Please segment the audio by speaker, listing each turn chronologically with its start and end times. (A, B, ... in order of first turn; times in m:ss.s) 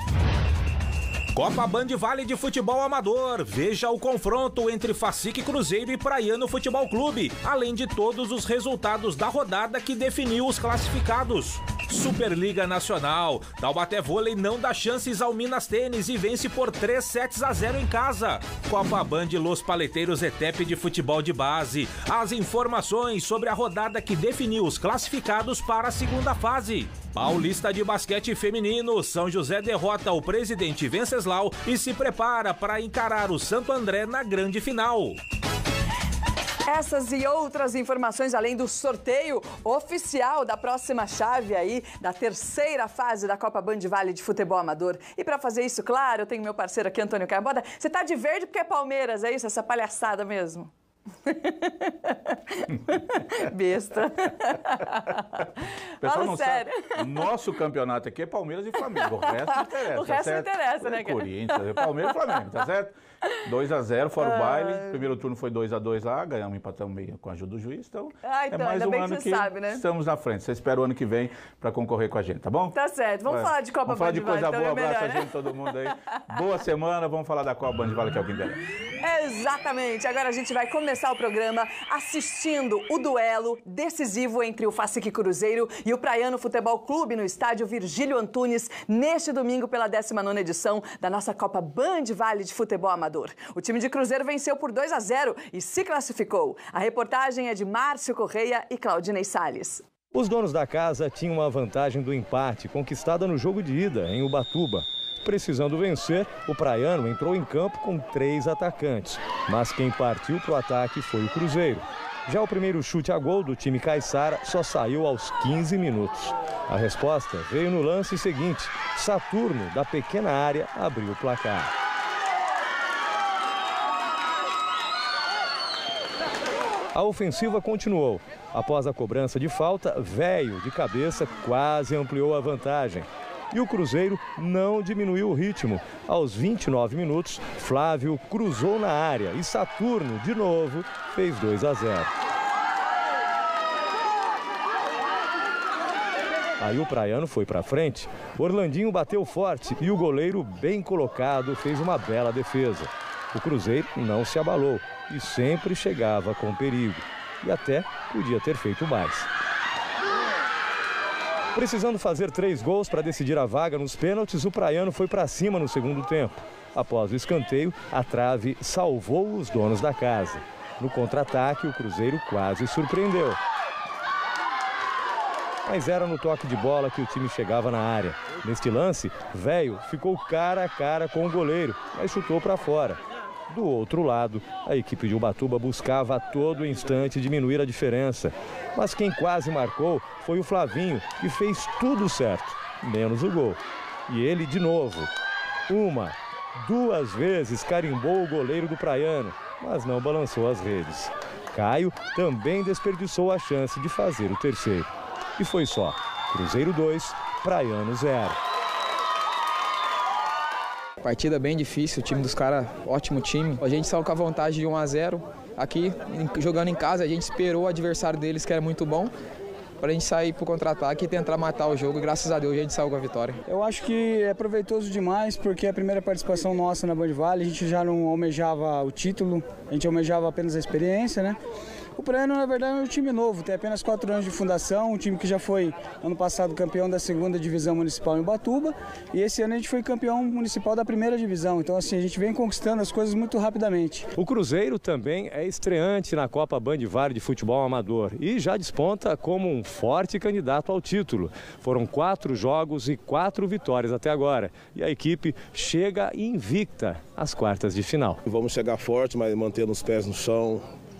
0:01.3-0:35.2 A
0:36.6-0:50.7 B
0:51.2-0:55.5 B
0:56.0-1:12.8 C
0:56.0-0:57.3 B
0:58.8-1:02.1 B
1:04.2-1:04.9 B
1:08.2-1:09.8 B
1:12.7-1:16.2 B
1:13.3-1:18.6 C
1:19.0-1:39.8 B
1:40.1-2:01.7 D
2:06.9-2:22.1 D
2:26.6-2:39.3 D
2:41.5-2:53.4 D
2:55.6-3:15.1 D
3:15.7-3:28.4 D
3:31.0-3:39.1 E
3:39.8-3:43.4 E
3:43.5-3:51.4 F
3:52.0-4:04.1 F
4:04.2-4:18.2 D
4:18.2-4:20.6 G